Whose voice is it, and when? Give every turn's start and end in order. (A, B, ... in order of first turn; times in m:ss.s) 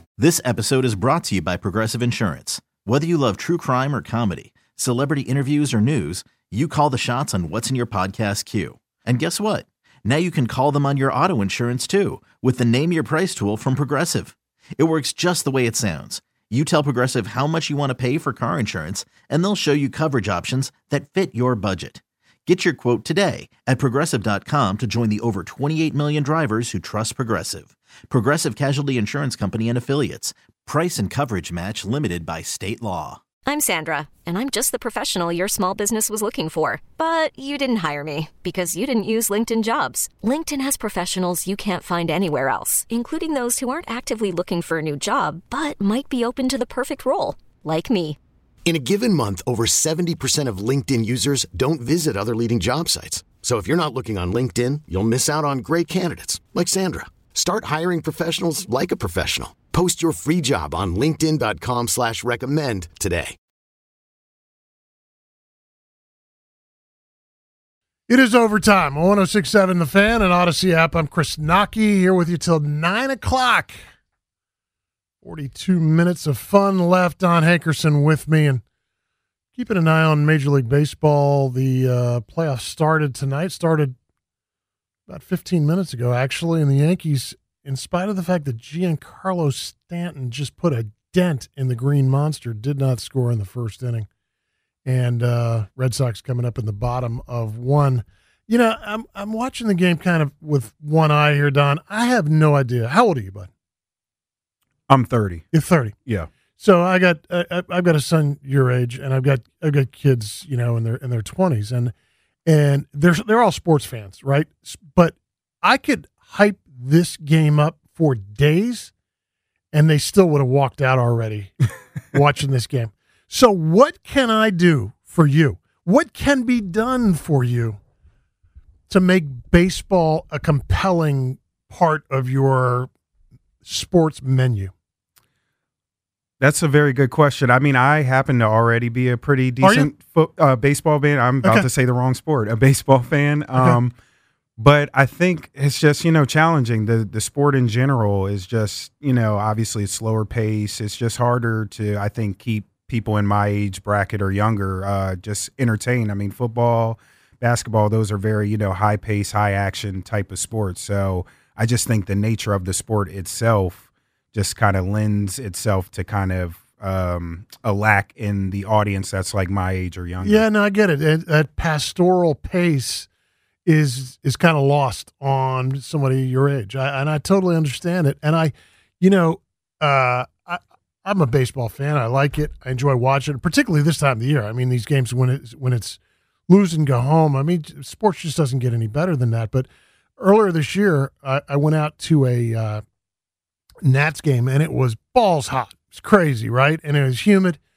0:00.2-0:33.2 A
0:33.4-0:48.2 B
0:48.6-1:03.4 C
1:08.1-1:13.8 D
1:15.2-1:18.6 D
1:19.5-1:24.0 D
1:25.1-1:34.1 D
1:34.8-1:43.5 D
1:44.9-1:45.5 E
1:45.5-1:45.9 D
1:46.6-1:51.9 D
1:52.4-1:58.9 D
1:59.7-2:01.5 D
2:02.1-2:07.8 D
2:08.9-2:12.9 D
2:13.6-2:14.7 D
2:16.4-2:23.9 E
2:19.6-2:19.9 D
2:24.6-2:50.4 E
2:50.2-2:53.1 D
2:53.6-3:09.7 D
3:10.2-3:12.8 D
3:13.8-3:17.6 D